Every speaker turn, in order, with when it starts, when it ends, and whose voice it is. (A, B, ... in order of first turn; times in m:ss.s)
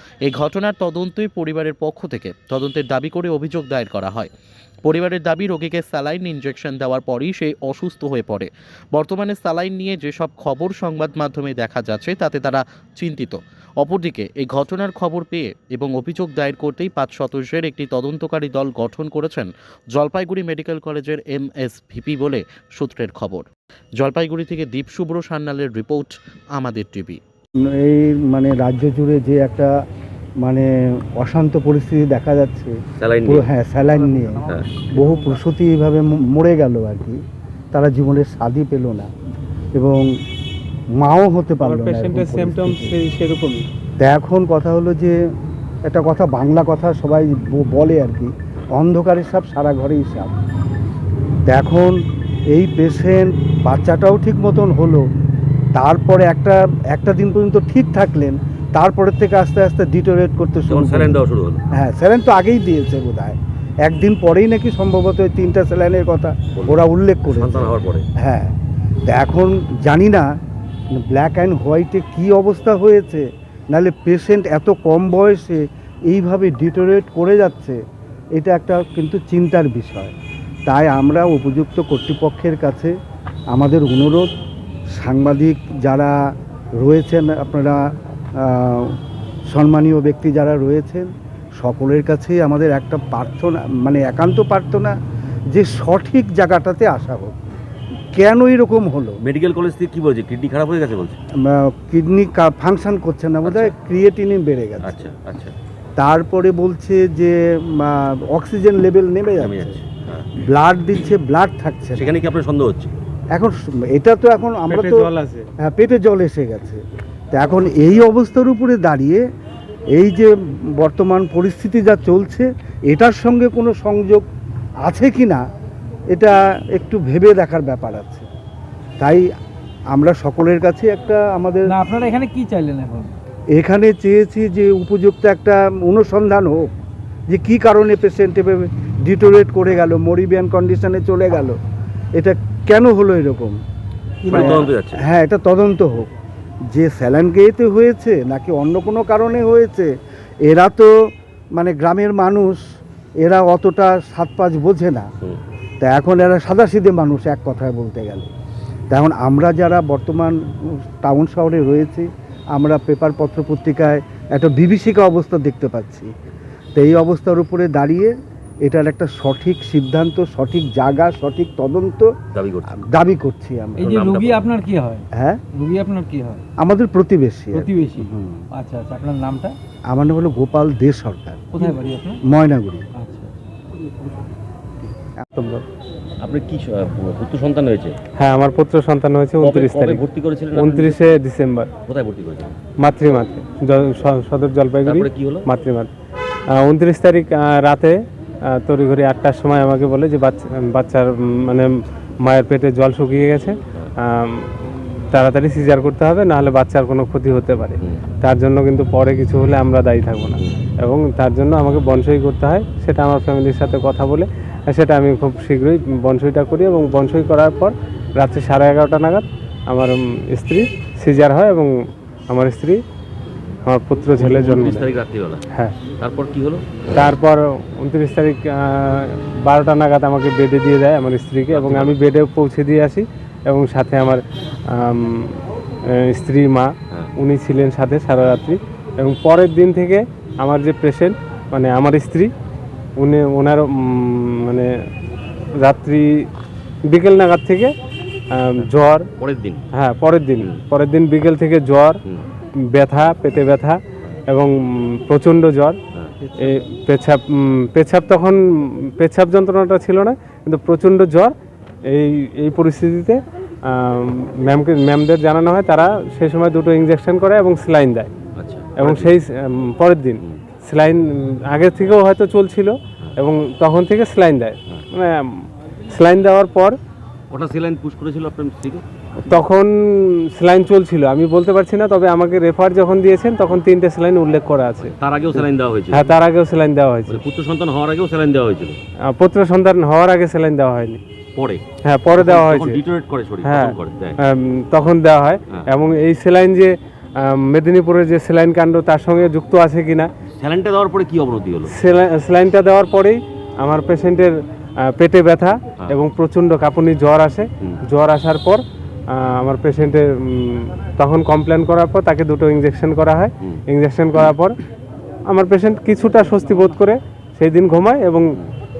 0:00.2-0:04.3 A
0:04.8-0:27.2 A
0:27.7-0:29.7 B
0:30.4-0:37.2 B
0:33.0-0:33.5 C
0:37.7-0:39.1 B
0:39.8-0:40.1 B
0:41.0-0:43.0 B
0:41.6-0:43.7 D
0:44.0-0:45.2 B
0:45.9-0:50.3 B
0:51.5-0:52.0 B
0:52.5-0:55.0 B
0:55.8-1:01.2 B
1:00.7-1:01.6 C
1:01.7-1:08.5 B
1:06.6-1:08.1 C
1:09.1-1:10.3 B
1:11.0-1:17.8 B
1:18.4-1:20.1 B
1:20.7-1:22.9 B
1:23.5-1:24.3 B
1:25.0-1:26.2 B
1:26.8-1:27.8 B
1:28.4-1:29.0 B
1:29.5-1:35.0 B
1:35.5-1:37.4 B
1:38.1-1:39.2 B
1:39.2-1:41.2 C
1:41.4-1:45.0 B
1:43.4-1:43.8 C
1:44.8-1:45.6 C
1:46.0-1:49.8 B
1:49.4-1:50.3 C
1:50.4-1:52.1 B
1:52.0-1:52.9 C
1:53.3-1:56.8 B
1:54.7-1:55.5 D
1:57.3-1:59.2 B
1:59.9-2:04.2 B
2:04.8-2:05.4 B
2:06.1-2:08.3 B
2:09.0-2:09.3 B
2:09.9-2:11.7 B
2:11.6-2:13.2 E
2:13.6-2:16.7 B
2:17.3-2:21.6 B
2:22.2-2:23.6 B
2:24.2-2:26.1 B
2:24.3-2:25.0 C
2:26.7-2:29.9 B
2:30.4-2:30.9 B
2:31.6-2:32.6 B
2:33.2-2:35.1 B
2:35.8-2:38.3 B
2:38.9-2:46.1 B
2:46.8-2:52.1 B
2:52.3-2:52.8 C
2:52.7-2:54.0 B
2:53.8-2:56.4 E
2:53.8-2:54.5 C
2:55.2-2:55.4 B
2:56.6-2:58.5 B
2:57.5-2:59.6 E
2:59.9-3:01.7 B
3:01.6-3:02.2 E
3:02.3-3:02.9 B
3:03.0-3:03.8 E
3:05.3-3:05.6 D
3:06.2-3:08.0 C
3:08.2-3:10.0 D
3:09.4-3:11.2 C
3:10.5-3:11.7 D
3:11.9-3:12.6 C
3:12.8-3:15.9 D
3:14.8-3:15.5 C
3:16.5-3:18.0 D
3:18.5-3:21.7 D
3:22.2-3:41.7 D
3:42.3-3:42.8 D
3:43.7-3:44.9 D
3:44.2-3:45.4 C
3:45.5-3:45.8 D
3:46.0-3:46.9 C
3:46.9-4:02.3 D
3:51.5-3:52.0 C
4:03.0-4:04.7 D
4:05.6-4:06.3 D
4:06.9-4:07.7 D
4:08.3-4:09.1 D
4:08.6-4:09.6 C
4:09.7-4:12.0 D
4:12.7-4:15.8 D
4:15.9-4:16.4 C
4:16.4-4:21.3 D
4:21.9-4:28.1 D
4:28.4-4:29.2 C
4:28.8-4:36.8 D
4:37.3-4:39.4 C
4:39.3-4:47.2 D
4:44.8-4:46.2 C
4:47.1-4:48.8 C
4:49.1-4:51.0 D
4:51.4-4:54.2 C
4:51.8-4:52.8 D
4:53.4-5:00.1 D
5:00.4-5:01.7 C
5:01.7-5:14.6 D
5:15.3-5:18.3 D